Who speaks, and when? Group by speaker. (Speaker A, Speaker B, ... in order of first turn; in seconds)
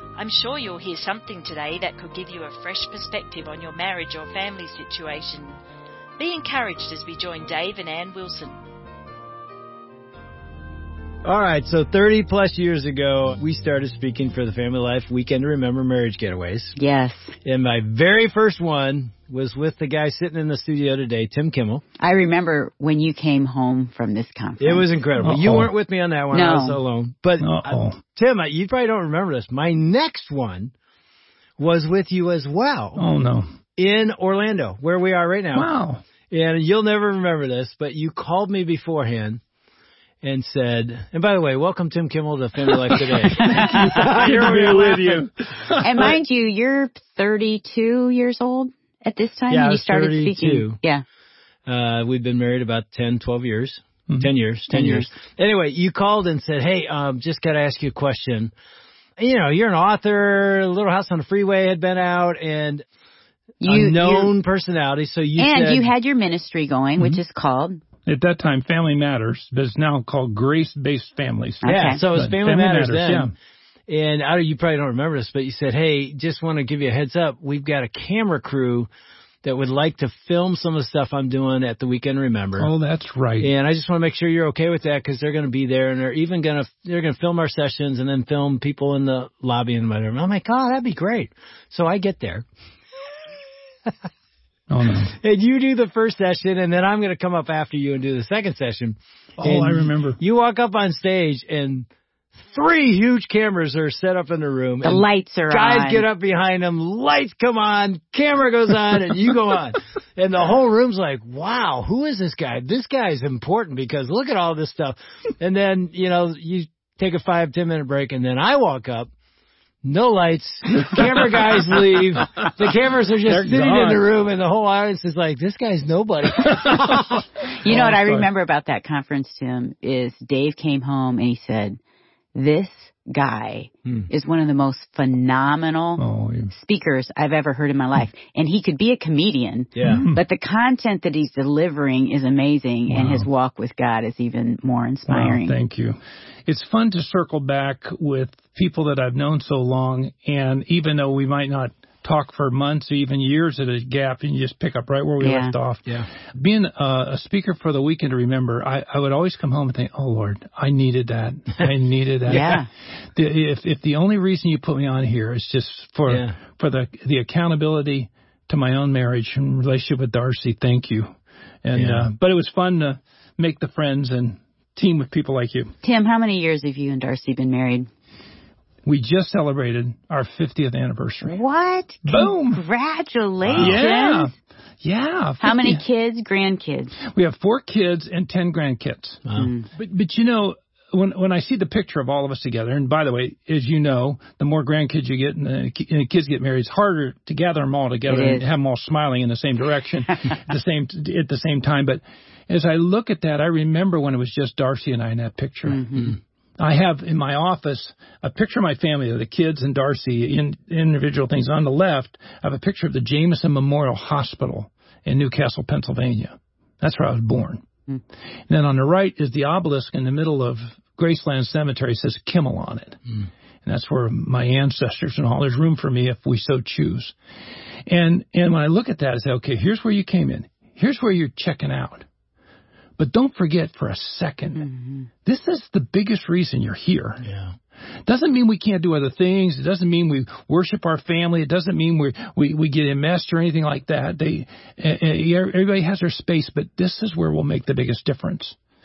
Speaker A: 0.2-5.6, 6.2-8.6
Speaker B: 11.2-16.8, 17.4-21.8, 24.6-30.7, 31.6-33.0, 33.8-35.7, 36.3-39.4, 40.2-45.2, 49.5-50.8, 51.7-58.5, 59.2-62.8, 63.6-65.9, 71.6-73.3, 73.9-78.9, 79.4-82.7, 83.4-92.4, 95.1-119.1, 119.8-127.2, 139.8-140.0, 162.3-162.6, 166.1-166.3, 171.8-172.1, 183.4-183.8, 189.2-189.5, 237.2-237.5
Speaker C: 16.8-17.3, 22.0-24.9, 26.3-26.8, 43.4-44.7, 45.7-51.0, 54.7-55.1, 63.6-64.3, 65.4-67.8, 71.6-72.0, 104.8-106.0, 127.4-131.8, 132.3-145.6, 155.2-155.6, 162.3-162.7, 175.8-177.9, 181.2-184.3, 185.4-187.0, 189.4-189.7, 198.1-198.5, 205.7-206.2, 234.7-235.1
Speaker D: 25.2-25.7, 27.4-28.0, 33.0-33.5, 35.5-36.0, 42.9-46.2, 68.1-73.3, 82.6-83.5, 94.7-95.1, 99.4-100.2, 123.2-124.0, 126.5-127.1, 127.6-128.3, 136.0-136.5, 139.8-140.2, 142.9-143.3, 145.1-175.7, 178.8-181.4, 182.1-182.6, 183.6-185.8, 187.0-217.7, 218.5-223.0, 223.6-227.2, 227.9-232.1, 233.0-234.7, 235.2-237.2, 238.1-248.6